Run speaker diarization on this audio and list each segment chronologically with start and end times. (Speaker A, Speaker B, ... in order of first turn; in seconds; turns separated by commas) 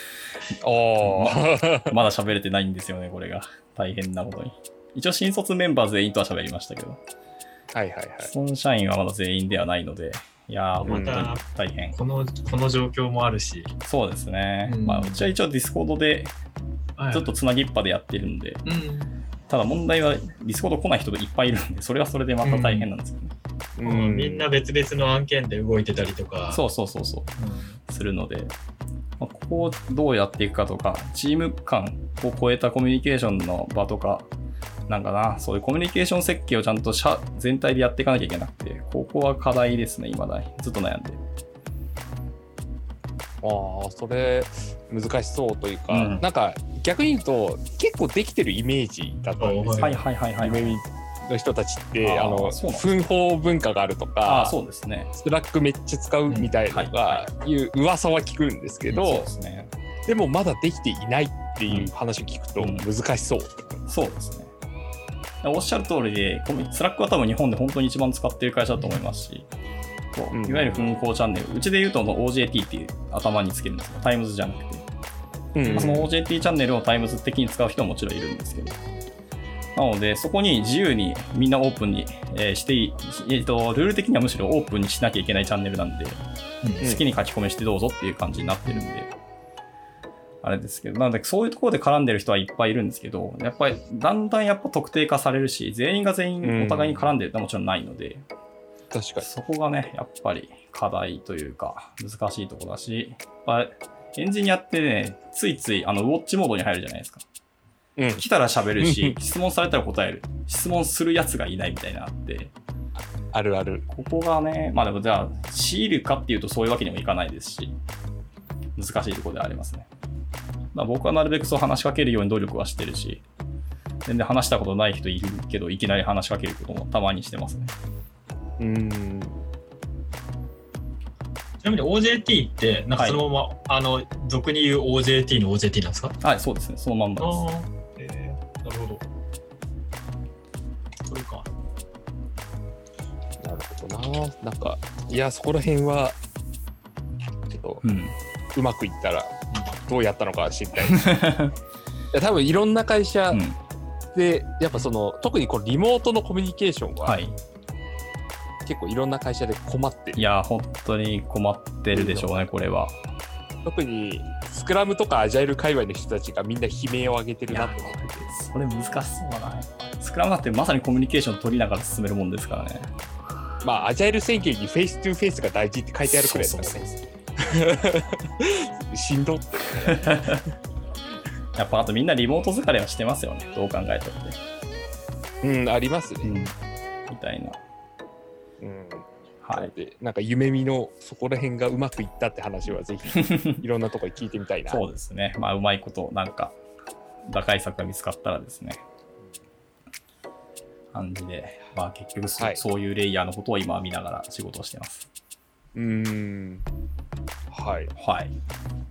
Speaker A: 0.6-2.0, Speaker B: 1.0-7.0, Speaker A: 7.7-8.3, Speaker B: 8.2-12.0, Speaker C: 10.8-11.4, Speaker A: 10.8-11.3, Speaker C: 11.9-13.7, Speaker B: 13.8-16.3, Speaker C: 14.7-15.2, Speaker C: 17.0-17.3, Speaker B: 17.1-18.6, Speaker C: 18.6-19.1, Speaker B: 19.5-23.3, Speaker C: 22.4-22.9, Speaker A: 23.8-24.4, Speaker C: 23.8-26.6, Speaker B: 26.5-27.3, Speaker C: 27.4-27.8, Speaker B: 27.9-28.5, Speaker B: 29.2-34.3, Speaker B: 34.9-41.2, Speaker A: 43.4-54.5, Speaker B: 45.9-46.2, Speaker C: 49.4-50.0, Speaker B: 49.8-50.8, Speaker B: 52.0-53.1, Speaker B: 54.2-55.1, Speaker A: 55.1-59.3, Speaker B: 56.7-57.3, Speaker B: 58.9-59.7, Speaker A: 60.0-63.8, Speaker B: 62.6-62.8, Speaker B: 63.9-64.5, Speaker B: 65.4-69.5, Speaker B: 70.1-74.8, Speaker A: 70.3-70.8, Speaker A: 75.5-76.1, Speaker B: 75.7-78.8, Speaker B: 79.7-86.2, Speaker C: 86.6-86.9, Speaker B: 86.8-89.1, Speaker B: 90.4-98.2, Speaker A: 96.4-97.1, Speaker A: 98.9-99.3, Speaker B: 99.2-107.2, Speaker A: 108.0-108.2, Speaker B: 108.1-112.5, Speaker A: 108.8-109.2, Speaker A: 113.3-113.8, Speaker B: 113.9-117.8, Speaker B: 118.8-119.9, Speaker B: 120.7-123.2, Speaker B: 124.0-127.7, Speaker A: 128.6-129.4, Speaker C: 131.6-136.2, Speaker B: 132.9-133.2, Speaker B: 136.2-137.4, Speaker C: 137.2-139.0, Speaker C: 141.0-141.5, Speaker A: 143.4-146.2, Speaker A: 147.5-147.8, Speaker B: 147.8-148.1, Speaker A: 148.5-151.1, Speaker B: 150.8-151.5, Speaker A: 152.1-153.4, Speaker B: 153.3-153.6, Speaker A: 154.1-157.2, Speaker B: 157.0-157.3, Speaker A: 158.6-160.2, Speaker B: 160.2-163.0, Speaker A: 161.9-162.3, Speaker A: 163.6-168.1, Speaker B: 167.5-172.9, Speaker A: 173.6-176.8, Speaker B: 176.1-177.0, Speaker A: 177.4-180.5, Speaker B: 179.8-180.4, Speaker B: 181.6-184.4, Speaker A: 185.4-186.3, Speaker B: 186.2-186.5, Speaker B: 187.1-187.6, Speaker A: 188.6-194.8, Speaker B: 189.4-189.7, Speaker B: 193.1-193.6, Speaker B: 194.7-196.6, Speaker B: 197.3-198.8, Speaker B: 200.9-205.1, Speaker A: 205.7-206.7, Speaker A: 207.5-207.9, Speaker B: 207.9-208.3